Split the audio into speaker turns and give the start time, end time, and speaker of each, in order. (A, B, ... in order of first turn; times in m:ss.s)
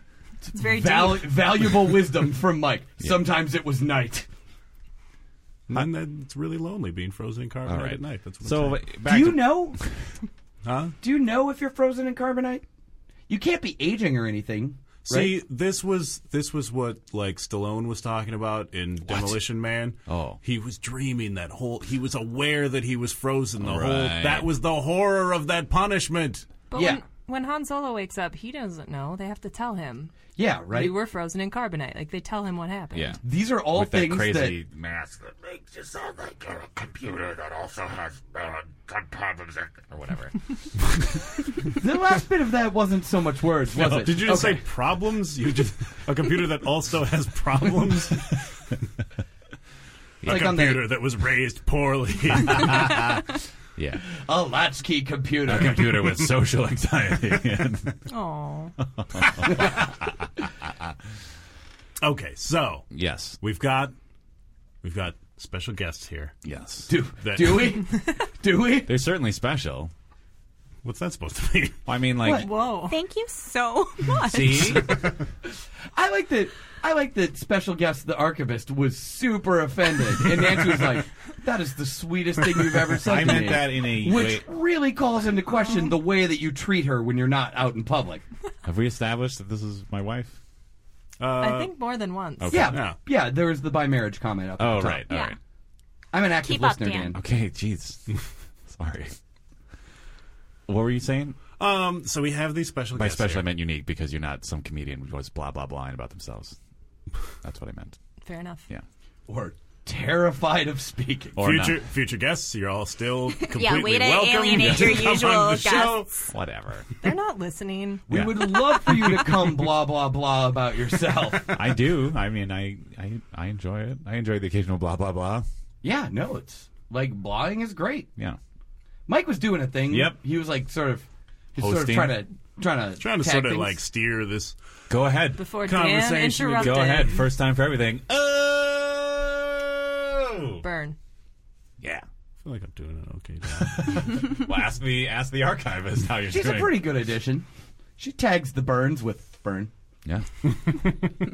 0:00.5-0:04.3 A
0:00.5-0:01.4 B
0:05.7-0:08.8 C
0:07.6-0:10.1 D
0:09.1-0:09.8 A
0:10.6-0:11.0 C
0:11.0-0:12.6 A
0:13.3-0:15.4 A
0:15.0-0:26.5 C
0:19.0-0:19.4 D
0:20.0-0:20.4 D
0:23.6-0:24.5 D
0:26.7-0:33.2 B
0:26.7-0:27.0 A
0:30.3-0:30.9 A
0:32.9-0:33.2 D
0:33.2-0:34.6 A
0:33.7-0:41.2 D
0:41.7-0:44.6 A
0:43.7-0:44.3 D
0:43.7-0:48.3 C
0:50.2-0:50.7 D
0:50.2-0:50.8 A
0:50.2-0:52.7 C
0:52.3-0:54.0 D
0:54.2-0:56.2 A
0:55.4-0:58.0 D
0:58.1-0:58.8 B
0:59.0-1:00.9 D
0:59.4-0:59.9 A
1:02.0-1:02.8 C
1:02.9-1:03.4 D
1:03.4-1:03.9 C
1:04.8-1:06.3 C
1:06.4-1:06.9 D
1:06.9-1:09.0 A
1:07.2-1:07.7 C
1:08.8-1:09.9 D
1:10.8-1:11.8 C
1:11.8-1:12.5 D
1:12.2-1:12.5 A
1:12.2-1:13.0 B
1:12.9-1:14.8 E
1:14.2-1:15.0 D
1:15.9-1:28.2 A
1:23.0-1:24.4 D
1:28.6-1:30.4 D
1:31.2-1:31.7 C
1:31.4-1:32.6 B
1:32.4-1:32.8 D
1:32.5-1:35.1 A
1:32.7-1:33.0 C
1:34.6-1:35.4 D
1:35.1-1:35.4 E
1:36.1-1:37.2 A
1:36.4-1:37.1 E
1:37.1-1:39.1 D
1:40.7-1:41.4 D
1:41.6-1:43.5 C
1:42.9-1:46.6 D
1:47.4-1:48.0 D
1:48.2-1:48.7 B
1:49.3-1:51.4 A
1:51.4-1:51.8 D
1:51.4-1:56.1 C
1:53.5-1:56.2 E
1:56.3-1:56.9 D
1:57.0-1:58.3 B
1:58.1-2:01.7 A
1:58.1-1:58.6 D
2:01.5-2:05.4 D
2:05.8-2:08.1 A
2:09.1-2:13.8 A
2:09.9-2:10.2 D
2:11.6-2:12.2 D
2:13.0-2:14.6 C
2:14.9-2:15.4 D
2:15.4-2:17.2 B
2:15.6-2:17.2 C
2:16.6-2:20.6 D
2:20.6-2:21.0 B
2:22.4-2:24.1 C
2:23.6-2:26.8 D
2:26.3-2:27.4 A
2:28.0-2:29.7 A